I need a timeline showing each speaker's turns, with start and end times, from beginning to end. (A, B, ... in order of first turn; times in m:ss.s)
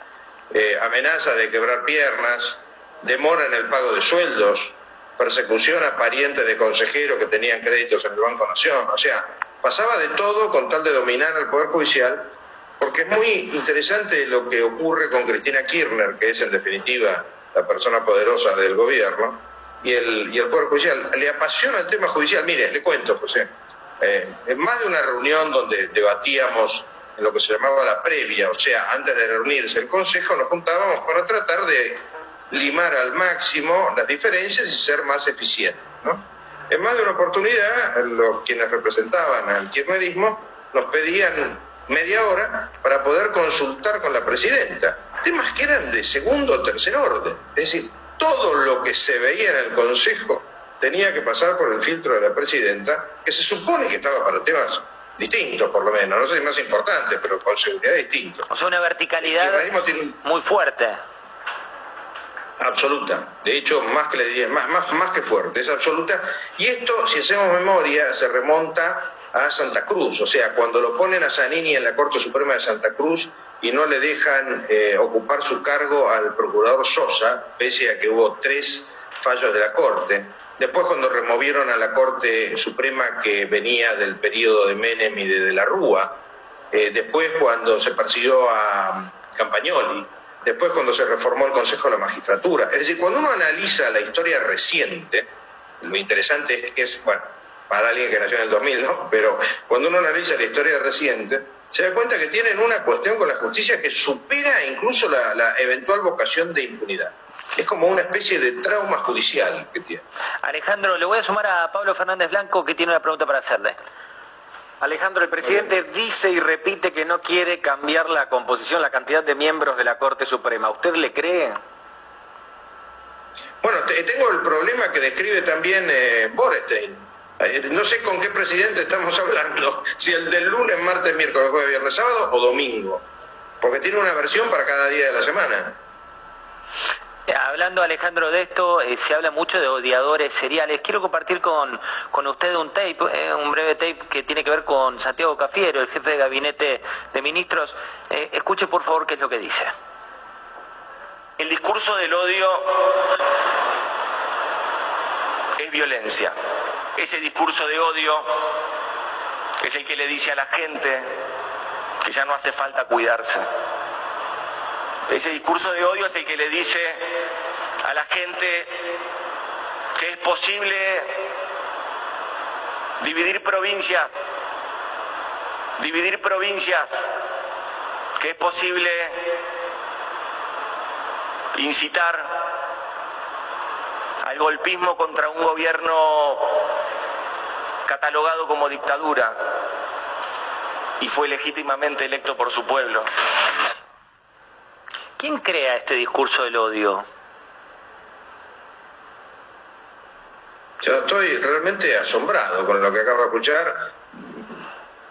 0:00.5-0:58.5 A
0:58.5-1:01.0 B
0:59.2-1:00.2 A
1:02.6-1:26.2 A
1:26.7-1:35.3 A
1:35.8-1:50.0 A
1:50.4-1:53.8 B
1:54.8-2:01.6 C
2:03.6-2:13.0 A
2:13.6-2:15.8 A
2:17.3-2:29.7 B
2:31.4-2:33.0 D
2:35.6-2:36.3 D
2:37.0-2:38.4 D
2:39.6-2:41.2 D
2:42.0-2:43.5 D
2:45.1-2:47.1 D
2:47.8-2:48.8 D
2:50.0-2:51.2 D
2:53.0-2:54.1 D
2:55.8-2:57.1 D
2:58.2-2:59.3 D
3:01.5-3:02.3 D
3:04.2-3:06.6 D
3:07.8-3:09.5 D
3:11.0-3:13.1 D
3:15.2-3:17.0 B
3:20.8-3:24.4 A